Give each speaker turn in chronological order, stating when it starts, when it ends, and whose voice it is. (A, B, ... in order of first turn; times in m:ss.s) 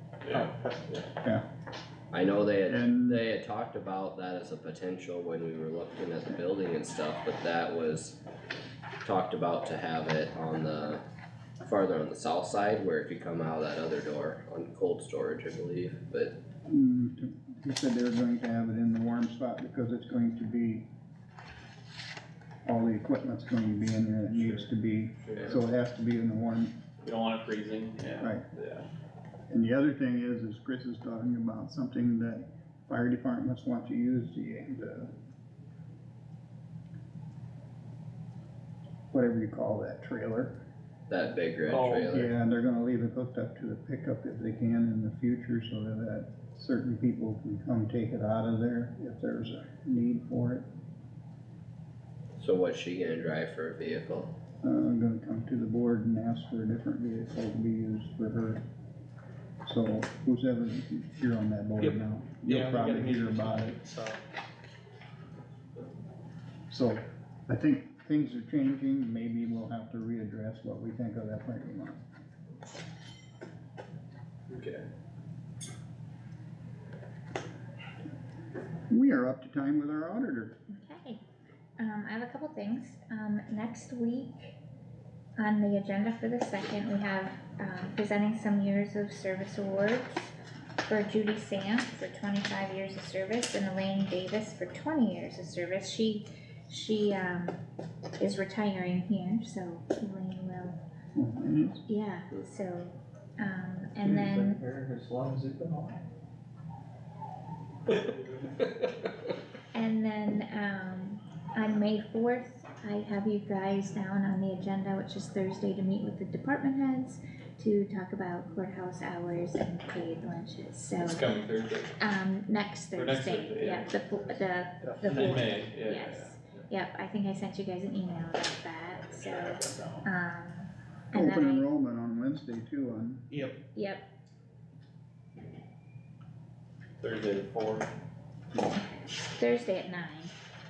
0:00.2-0:00.5 A
0:00.3-0:00.8 B
0:02.1-0:08.2 C
0:02.7-0:03.2 D
0:09.0-0:11.0 C
0:11.6-0:16.4 C
0:16.6-0:20.8 D
0:22.6-0:26.7 D
0:27.0-0:28.8 A
0:28.2-0:28.4 D
0:29.5-0:35.1 D
0:39.1-0:40.6 D
0:41.1-0:42.3 C
0:41.7-0:42.2 A
0:42.1-0:50.6 D
0:52.4-0:54.3 C
0:54.6-0:58.6 D
0:59.6-1:03.7 D
1:01.8-1:04.2 B
1:06.7-1:12.0 D
1:18.9-1:20.5 D
1:20.7-1:21.2 E
1:21.8-1:24.6 E
1:25.4-1:30.1 E
1:30.8-1:37.6 E
1:38.2-1:40.8 E
1:41.2-1:41.8 D
1:41.9-1:44.6 E
1:44.0-1:46.0 B
1:48.0-1:48.3 B
1:49.7-2:01.2 E
2:01.0-2:01.9 A
2:02.0-2:11.6 E
2:02.9-2:04.4 A
2:04.8-2:05.7 B
2:05.1-2:06.6 A
2:09.1-2:10.0 A
2:11.1-2:13.2 D
2:13.3-2:13.6 B
2:13.7-2:14.0 E
2:17.0-2:17.9 A
2:18.6-2:20.3 E